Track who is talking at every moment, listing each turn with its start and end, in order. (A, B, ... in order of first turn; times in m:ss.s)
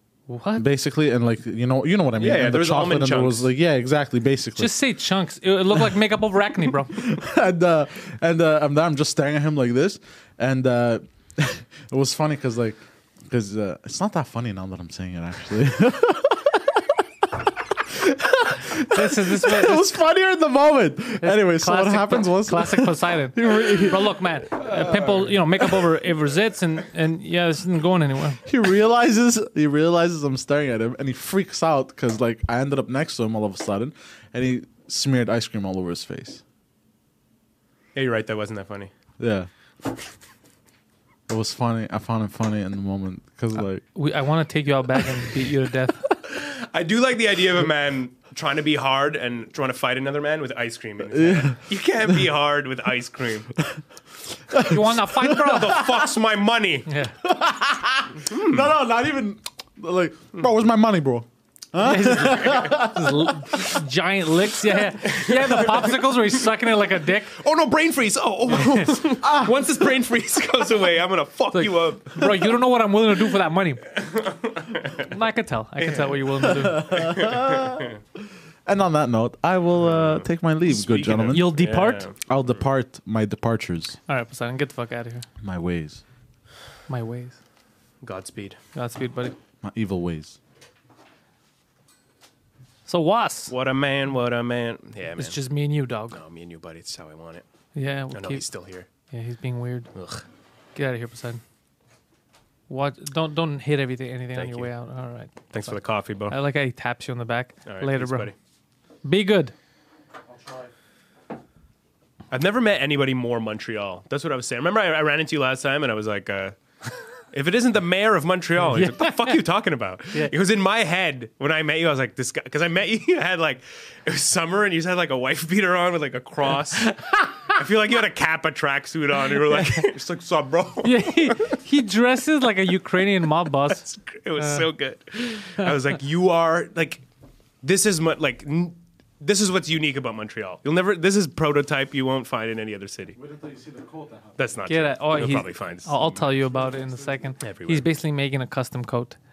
0:00.3-0:00.6 A
0:00.6-0:04.7 B
0:02.2-0:03.5 C
0:04.6-0:07.0 A
0:06.9-0:24.6 B
0:18.8-0:19.9 A
0:21.2-0:28.4 A
0:28.4-0:36.4 B
0:37.9-0:38.9 C
0:39.2-0:39.5 B
0:41.3-0:43.8 B
0:43.9-0:46.0 A
0:46.3-0:53.5 C
0:51.1-0:51.6 B
0:54.5-0:56.0 B
0:54.6-0:55.8 A
0:55.3-0:56.9 C
0:56.9-0:57.1 A
0:57.2-1:03.7 B
0:58.2-0:58.7 C
1:01.8-1:07.4 A
1:04.9-1:06.5 C
1:07.3-1:12.5 C
1:09.2-1:09.7 B
1:11.5-1:13.9 A
1:14.0-1:15.1 C
1:15.0-1:16.9 A
1:15.8-1:17.9 C
1:16.4-1:17.9 B
1:18.6-1:21.6 B
1:19.8-1:22.3 C
1:21.3-1:22.1 A
1:22.3-1:24.0 B
1:24.1-1:25.2 A
1:25.4-1:26.0 B
1:26.9-1:27.4 A
1:28.0-1:28.6 C
1:28.7-1:29.4 A
1:29.6-1:30.4 B
1:32.9-1:33.5 A
1:33.5-1:35.4 C
1:35.2-1:36.2 A
1:36.1-1:37.4 C
1:37.8-1:38.4 A
1:38.1-1:38.9 C
1:39.1-1:39.9 A
1:39.9-1:40.2 C
1:40.7-1:41.4 A
1:42.7-1:45.8 A
1:44.4-1:44.7 C
1:45.5-1:46.3 C
1:46.3-1:48.3 A
1:47.6-1:48.3 C
1:49.0-1:49.5 A
1:52.3-1:56.6 C
1:57.3-2:11.6 C
1:58.6-1:59.4 A
2:06.8-2:07.5 A
2:10.8-2:13.8 A
2:13.7-2:17.0 C
2:14.4-2:14.6 A
2:17.6-2:23.2 C
2:23.1-2:24.5 B
2:24.4-2:26.2 C
2:24.7-2:29.2 A
2:26.5-2:27.0 B
2:27.4-2:27.9 C